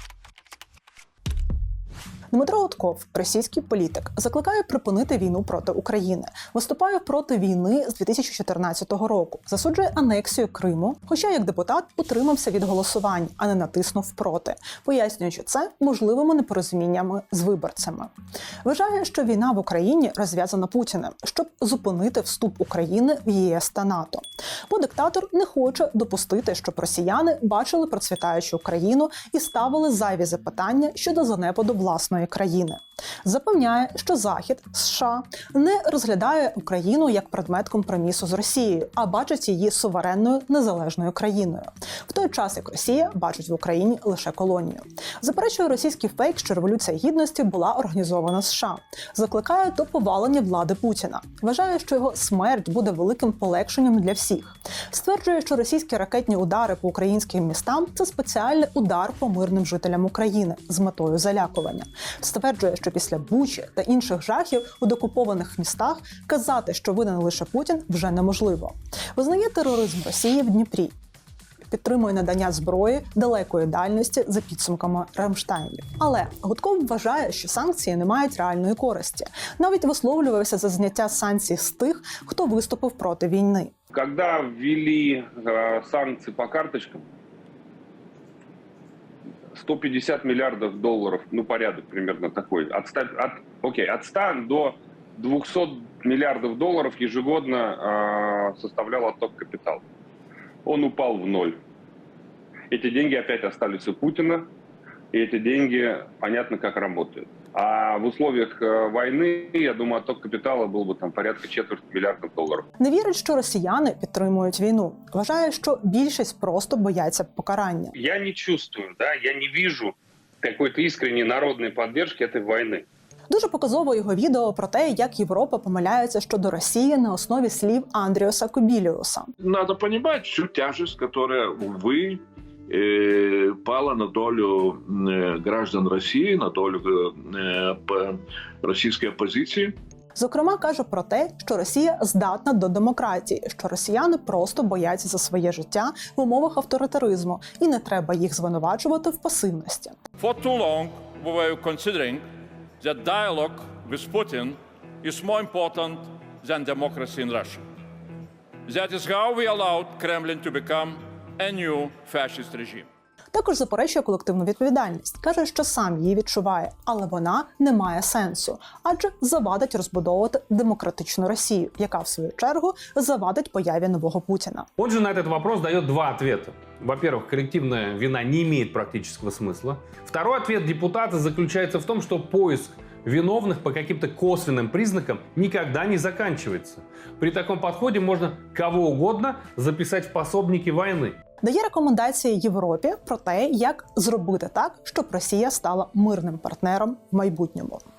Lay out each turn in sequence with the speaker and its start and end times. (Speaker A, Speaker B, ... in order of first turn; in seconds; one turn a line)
Speaker A: 2.3-18.1
Speaker A: 18.6-70.9
Speaker A: 71.7-83.7
Speaker B: 83.9-87.0
Speaker B: 89.5-99.8
Speaker B: 100.7-101.6
Speaker B: 102.7-104.5
Speaker B: 105.1-112.6
Speaker A: 112.8-117.9
Speaker B: 118.0-122.8
Speaker A: 123.3-129.3
Speaker C: 129.4-139.7
Speaker A: 140.2-149.9
Speaker D: 150.2-152.2
Speaker D: 152.8-157.6
Speaker D: 158.7-162.8
Speaker A: 163.3-174.7
Speaker E: 174.8-191.2
Speaker A: 191.4-197.8